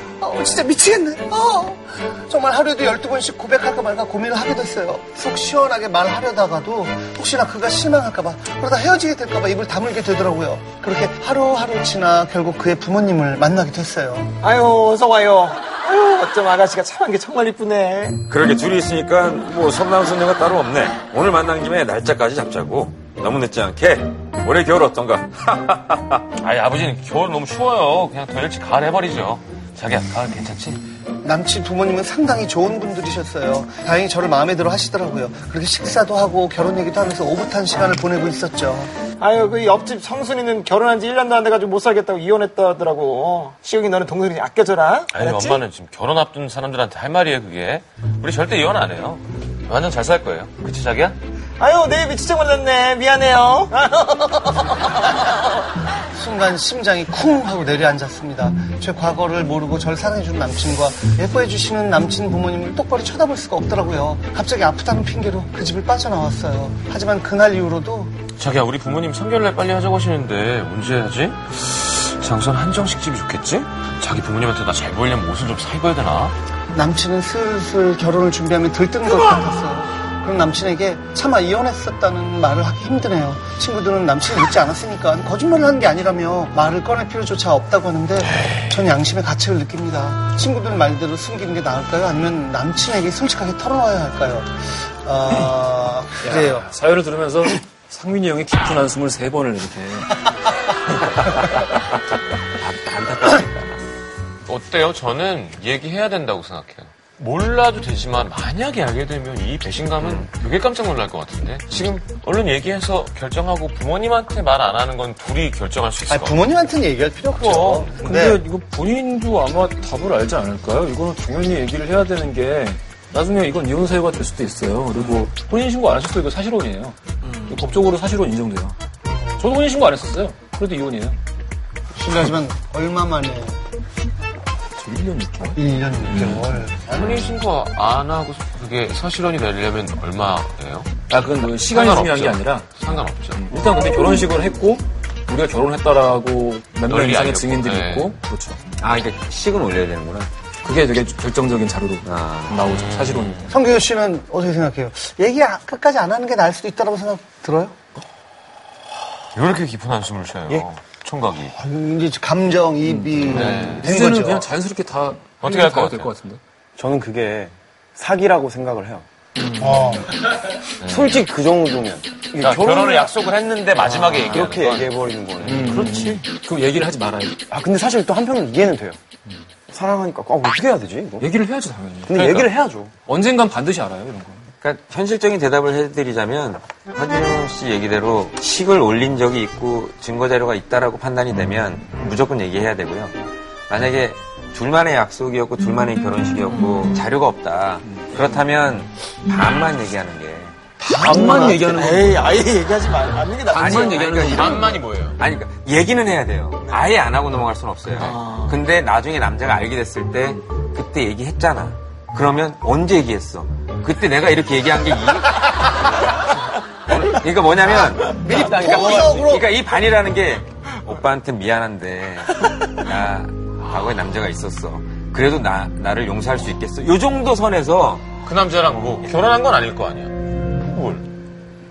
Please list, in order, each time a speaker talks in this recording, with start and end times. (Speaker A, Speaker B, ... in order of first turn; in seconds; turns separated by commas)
Speaker A: 0.2-14.3, Speaker B: 14.4-18.2, Speaker C: 18.3-26.2, Speaker D: 26.4-30.8, Speaker A: 31.2-38.9, Speaker B: 39.2-45.6, Speaker D: 45.1-51.2, Speaker B: 51.6-55.4, Speaker A: 56.1-68.1, Speaker D: 68.4-76.4, Speaker A: 76.7-96.7, Speaker E: 96.2-100.3, Speaker C: 102.5-103.8, Speaker D: 104.5-116.5, Speaker C: 110.0-110.3, Speaker A: 116.1-118.4, Speaker D: 117.4-117.9, Speaker E: 118.0-127.0, Speaker E: 127.5-128.8, Speaker A: 129.1-129.5, Speaker E: 129.4-131.2, Speaker A: 131.9-133.6, Speaker E: 134.8-135.6, Speaker A: 135.6-137.4, Speaker E: 136.1-136.4, Speaker D: 136.9-143.4, Speaker E: 141.1-148.8, Speaker D: 146.9-148.1, Speaker C: 148.8-150.3, Speaker E: 150.6-153.6, Speaker C: 152.0-152.6, Speaker D: 152.7-153.4, Speaker A: 153.5-157.9, Speaker D: 159.3-161.5, Speaker A: 161.5-164.5, Speaker E: 162.8-166.4, Speaker D: 163.3-163.9, Speaker D: 165.4-166.1, Speaker F: 166.8-169.1, Speaker A: 169.8-170.0, Speaker F: 170.8-173.1, Speaker D: 170.8-171.2, Speaker D: 172.4-174.9, Speaker E: 173.8-174.5, Speaker F: 174.2-175.9, Speaker E: 175.4-177.4, Speaker D: 175.5-176.2, Speaker F: 177.5-179.0, Speaker F: 179.7-181.3, Speaker E: 181.2-182.4, Speaker F: 182.1-182.9, Speaker D: 182.2-182.5, Speaker E: 183.0-184.4, Speaker C: 184.6-193.2, Speaker C: 193.7-200.6, Speaker A: 200.9-201.5, Speaker B: 200.9-204.8, Speaker E: 201.1-202.1, Speaker C: 203.5-228.1, Speaker D: 203.6-205.2, Speaker B: 208.0-208.5, Speaker A: 217.7-219.5, Speaker D: 223.7-224.0, Speaker D: 228.2-231.1